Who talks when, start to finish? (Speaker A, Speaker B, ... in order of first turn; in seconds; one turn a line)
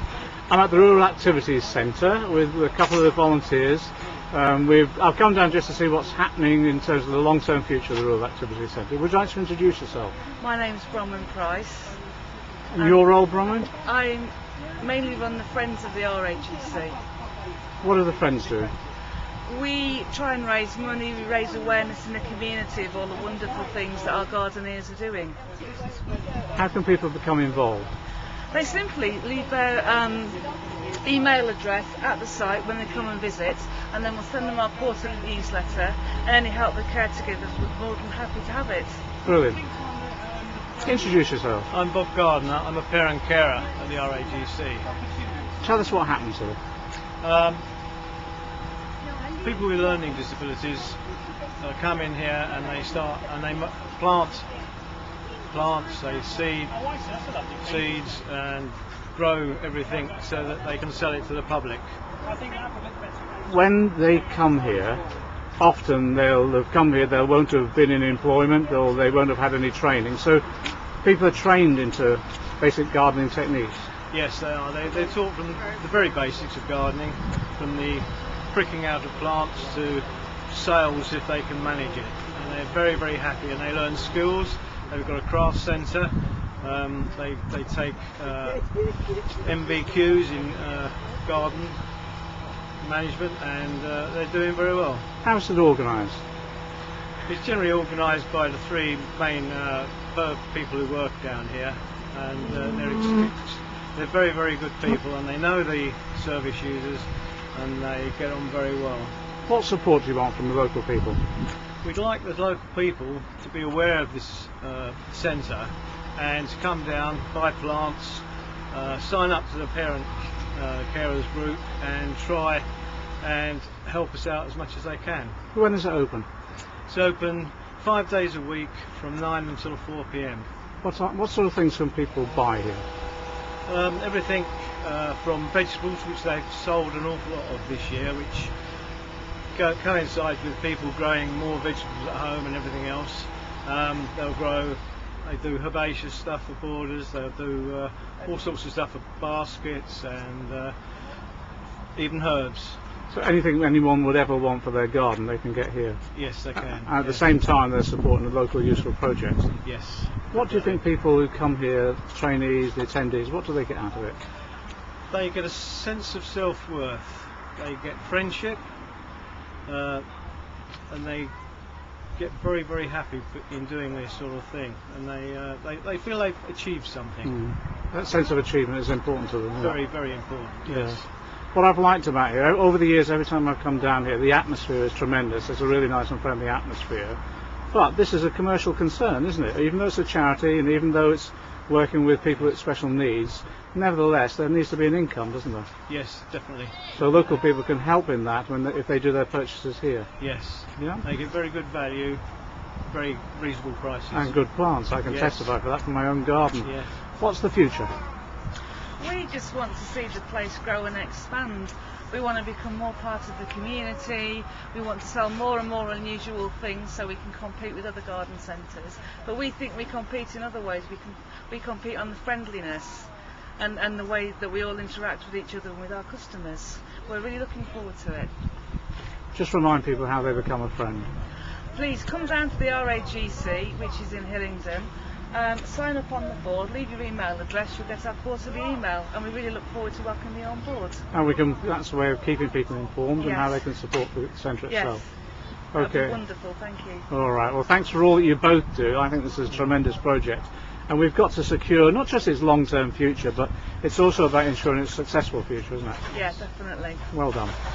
Speaker A: 0.5-10.1
Speaker B: 10.4-12.0
Speaker A: 12.7-13.7
Speaker B: 13.8-17.0
Speaker A: 17.8-18.7
Speaker B: 19.4-25.4
Speaker A: 26.5-27.9
Speaker B: 28.5-30.4
Speaker B: 31.0-39.0
Speaker A: 39.2-39.6
Speaker A: 40.8-41.7
Speaker C: 41.7-44.9
Speaker A: 45.6-46.6
Speaker C: 47.2-47.6
Speaker C: 49.4-51.0
Speaker C: 51.6-54.5
Speaker C: 55.5-56.8
Speaker C: 57.6-61.9
Speaker A: 63.4-65.0
Speaker A: 65.6-70.4
Speaker A: 71.0-73.9
Speaker C: 74.1-91.8
Speaker C: 92.8-95.1
Speaker A: 95.2-96.2
Speaker C: 97.2-109.1
Speaker A: 109.5-111.2
Speaker C: 111.8-122.7
Speaker C: 123.2-125.4
Speaker A: 125.5-126.3
Speaker C: 126.9-130.5
Speaker A: 130.8-132.8
Speaker C: 133.7-138.5
Speaker C: 139.5-150.7
Speaker C: 151.9-152.8
Speaker A: 153.1-159.6
Speaker C: 156.1-157.3
Speaker C: 159.6-160.8
Speaker A: 160.3-164.2
Speaker C: 165.1-168.6
Speaker C: 169.6-170.1
Speaker C: 170.9-171.3
Speaker C: 172.1-177.3
Speaker A: 177.2-179.8
Speaker C: 179.6-181.1
Speaker A: 180.7-181.0
Speaker A: 181.5-187.2
Speaker A: 187.7-195.7
Speaker C: 195.9-196.9
Speaker A: 196.9-200.1
Speaker C: 200.2-202.2
Speaker A: 200.8-201.0
Speaker C: 202.8-204.4
Speaker A: 204.1-207.9
Speaker C: 205.1-205.5
Speaker C: 206.6-206.9
Speaker B: 209.0-228.3
Speaker A: 229.3-231.1
Speaker B: 231.7-241.1
Speaker A: 241.1-245.0
Speaker B: 243.2-243.6
Speaker B: 244.7-245.0
Speaker A: 245.7-246.2
Speaker B: 245.7-247.1
Speaker A: 247.1-256.0
Speaker B: 256.1-257.0
Speaker A: 257.1-257.5